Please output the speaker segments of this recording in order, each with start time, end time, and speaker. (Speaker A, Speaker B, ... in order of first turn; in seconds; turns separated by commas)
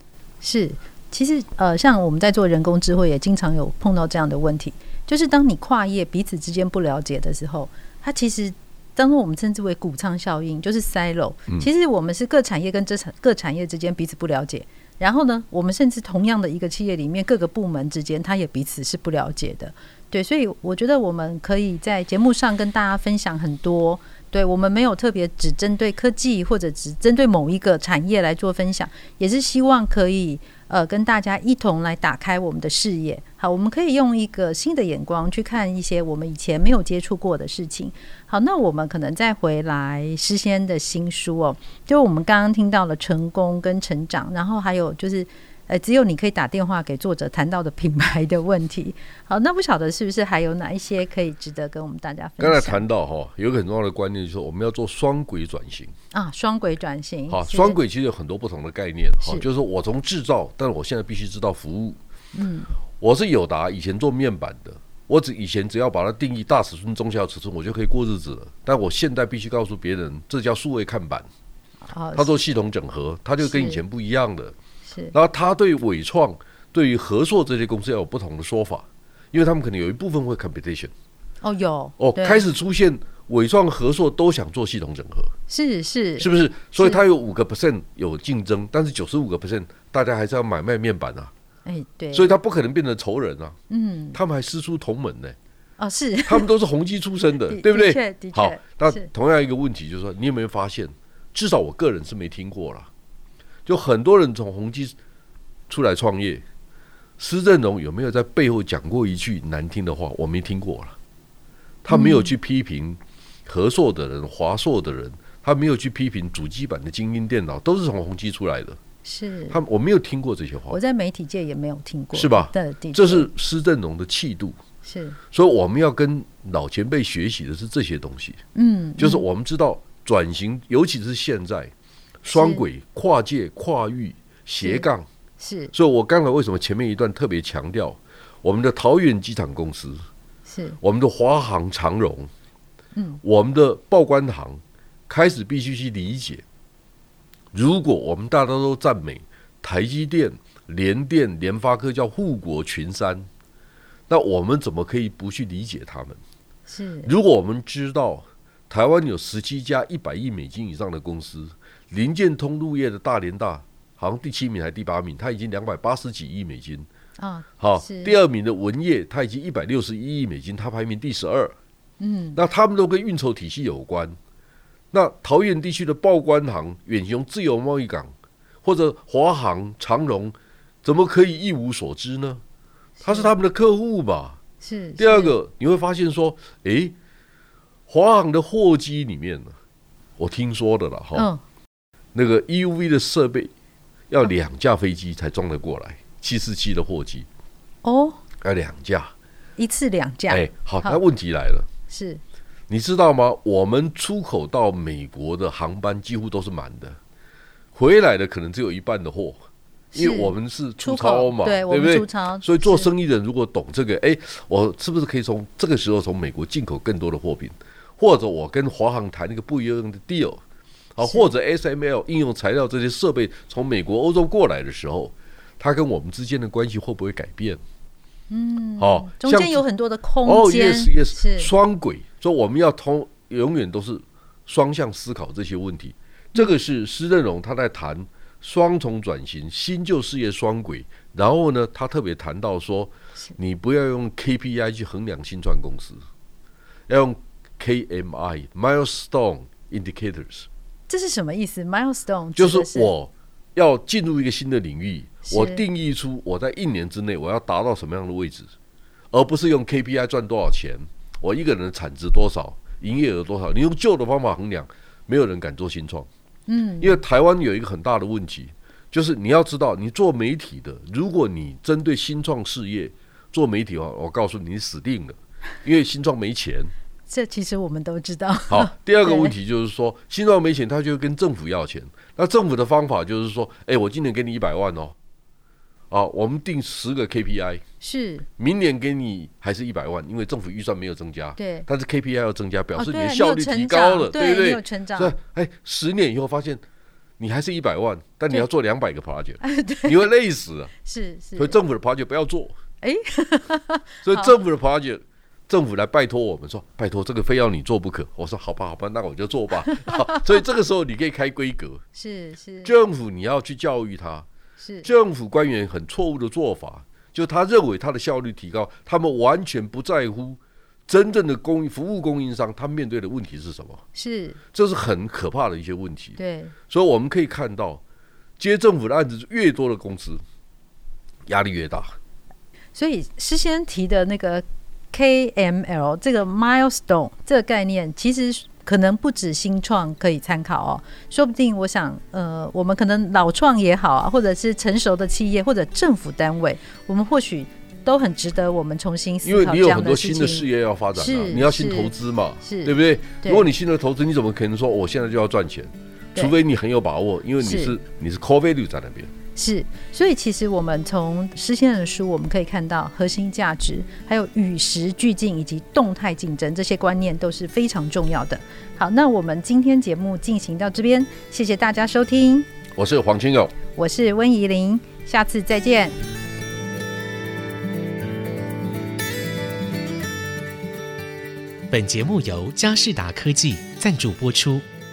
Speaker A: 0.4-52.8, Speaker B: 52.4-55.9, Speaker A: 56.1-57.8, Speaker B: 57.3-62.0, Speaker A: 62.3-62.7, Speaker B: 63.0-71.3, Speaker A: 71.9-72.3, Speaker B: 72.1-74.5, Speaker A: 73.4-73.8, Speaker A: 74.9-75.1, Speaker B: 75.1-80.9, Speaker A: 81.4-82.5, Speaker B: 82.0-85.3, Speaker A: 85.5-87.0, Speaker B: 86.2-91.3, Speaker A: 91.7-92.3, Speaker B: 92.1-93.6, Speaker A: 93.7-94.2, Speaker B: 94.1-95.3, Speaker A: 95.8-96.5, Speaker B: 96.3-102.9, Speaker A: 97.5-99.1, Speaker B: 103.7-104.9, Speaker B: 105.7-106.4, Speaker B: 107.2-111.0, Speaker B: 111.8-118.8, Speaker A: 111.9-112.3, Speaker A: 119.0-119.6, Speaker B: 119.5-120.8, Speaker A: 120.7-123.3, Speaker B: 122.1-124.6, Speaker A: 124.8-125.2, Speaker B: 125.3-128.4, Speaker A: 128.5-129.2, Speaker B: 129.0-135.1, Speaker A: 132.3-132.6, Speaker A: 134.6-134.9, Speaker A: 135.4-135.7, Speaker B: 135.7-140.0, Speaker A: 140.5-140.8, Speaker B: 140.8-142.3, Speaker A: 142.9-143.2, Speaker B: 143.2-146.4, Speaker B: 147.5-153.3, Speaker B: 154.1-156.2, Speaker A: 156.7-157.1, Speaker B: 157.0-166.9, Speaker A: 167.2-168.2, Speaker B: 167.6-171.6, Speaker A: 172.0-172.4, Speaker B: 172.3-174.2, Speaker B: 174.9-178.1, Speaker B: 178.6-182.4, Speaker A: 183.0-183.3, Speaker B: 183.0-184.4, Speaker A: 184.6-185.3, Speaker B: 185.0-186.9, Speaker B: 187.9-189.5, Speaker B: 190.2-191.3, Speaker A: 191.1-191.4, Speaker B: 192.1-193.5, Speaker B: 194.1-197.3, Speaker A: 197.8-198.2, Speaker B: 198.4-199.1, Speaker A: 199.6-201.0, Speaker B: 200.3-201.7, Speaker A: 201.9-202.2, Speaker B: 202.7-207.0, Speaker B: 207.7-209.4, Speaker A: 209.9-212.9, Speaker B: 209.9-220.4, Speaker B: 220.9-227.6, Speaker A: 221.0-221.3, Speaker A: 228.3-231.5, Speaker B: 228.8-229.6, Speaker B: 230.2-246.0, Speaker B: 246.9-250.5, Speaker A: 250.9-252.9, Speaker B: 252.4-258.5, Speaker A: 255.2-255.6, Speaker B: 259.1-266.1, Speaker A: 266.5-267.0, Speaker B: 266.8-276.7, Speaker A: 277.1-279.3, Speaker B: 278.5-284.9, Speaker B: 285.9-287.6, Speaker A: 287.8-288.2, Speaker B: 288.4-296.6, Speaker A: 291.4-291.7, Speaker A: 292.8-295.1, Speaker B: 297.2-300.7, Speaker A: 299.4-300.0, Speaker A: 300.8-301.6, Speaker B: 301.4-302.5, Speaker A: 302.8-304.3, Speaker B: 304.0-311.8, Speaker A: 311.9-312.7, Speaker B: 312.6-314.3, Speaker A: 314.6-314.9, Speaker B: 314.8-323.8, Speaker A: 323.9-324.4, Speaker B: 324.5-327.8, Speaker A: 326.2-326.5, Speaker B: 328.4-330.2, Speaker B: 331.2-331.9, Speaker A: 332.7-351.9, Speaker B: 349.2-359.1, Speaker A: 352.4-353.5, Speaker A: 357.4-357.8, Speaker A: 359.4-372.5, Speaker B: 372.7-373.5, Speaker A: 373.7-375.9, Speaker C: 381.7-384.6